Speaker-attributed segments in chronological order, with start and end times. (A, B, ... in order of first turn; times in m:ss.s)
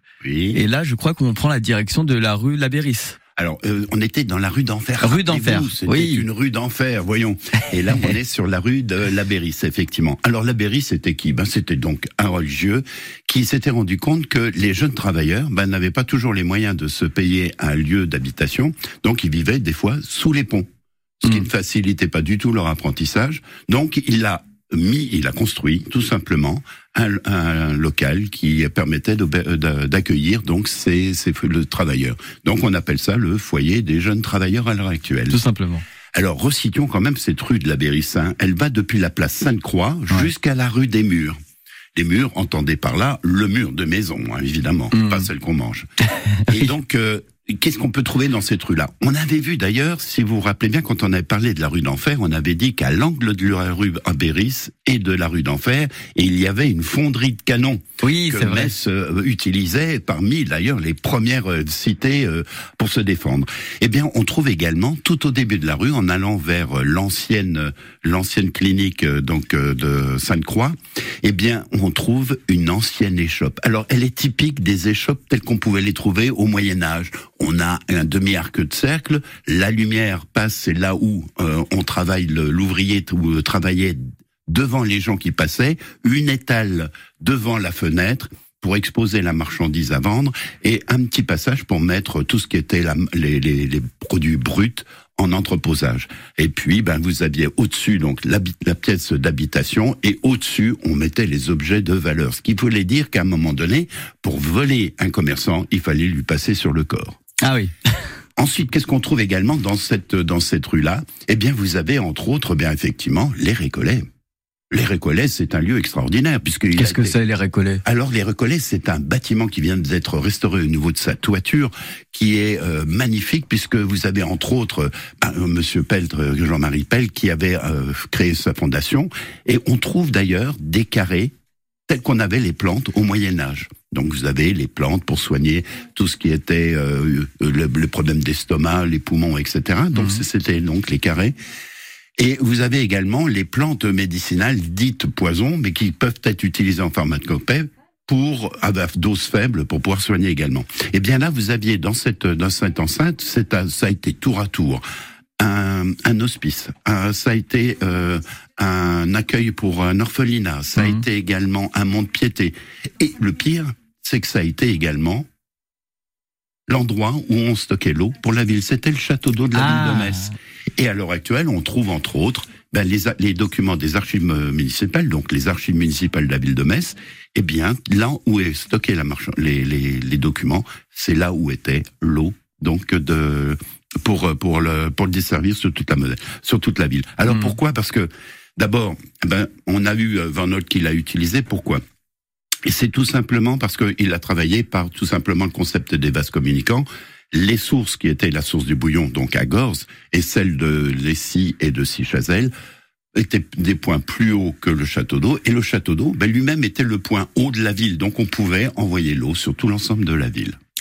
0:00.2-0:00.6 A
0:00.5-0:03.2 B
0:03.4-0:20.7 A
0:05.0-0:06.3 B
0:21.2-0:35.4 A
0:35.3-0:35.8 B
0:36.2-0:41.4 A
0:42.0-0:45.9 A
0:44.9-0:45.3 B
0:46.5-1:47.2 A
0:58.0-0:58.7 B
1:47.4-1:47.7 B
1:48.4-1:54.1 A
1:54.7-1:57.2 A
1:56.8-1:57.8 B
1:57.8-2:11.3 A
2:11.9-2:21.4 A
2:19.9-2:20.2 B
2:22.2-2:34.8 A
2:35.4-2:45.2 A
2:46.7-3:11.8 A
2:49.6-2:50.3 B
3:07.3-3:07.6 B
3:12.6-3:22.5 A
3:23.2-3:30.6 A